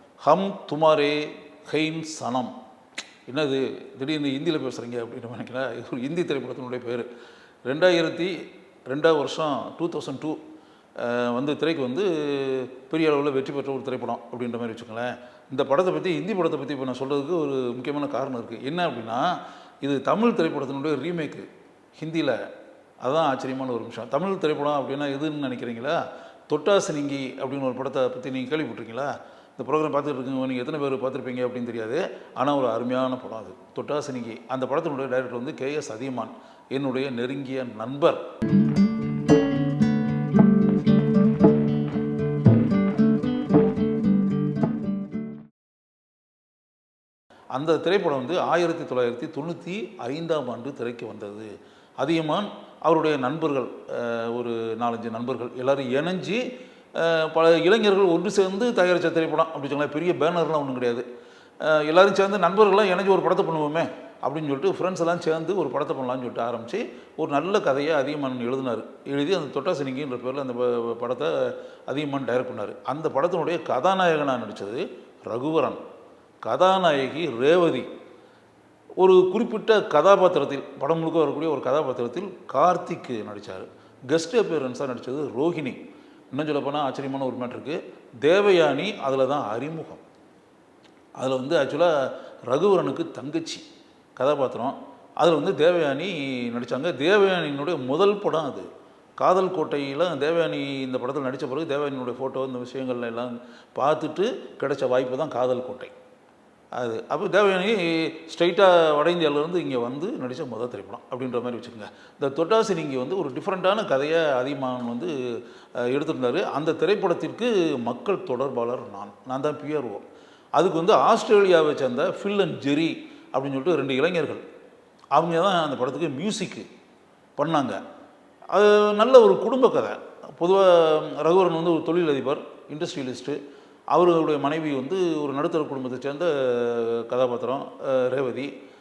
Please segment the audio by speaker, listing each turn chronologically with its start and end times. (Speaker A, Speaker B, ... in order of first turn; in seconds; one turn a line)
Speaker A: 0.2-2.5
Speaker A: 3.3-7.1
Speaker A: 7.7-8.3
Speaker A: 8.9-10.4
Speaker A: 11.0-19.3
Speaker A: 19.8-22.4
Speaker A: 23.0-38.2
Speaker A: 47.5-56.4
Speaker A: 57.0-61.0
Speaker A: 61.6-75.8
Speaker A: 76.4-77.9
Speaker A: 79.0-85.8
Speaker A: 86.3-90.0
Speaker A: 91.2-93.7
Speaker A: 94.2-98.7
Speaker A: 99.2-105.9
Speaker A: 106.8-115.1
Speaker A: 115.8-120.0
Speaker A: 120.6-124.4
Speaker A: 125.2-126.7
Speaker A: 127.4-127.8
Speaker A: 128.5-133.4
Speaker A: 133.9-138.5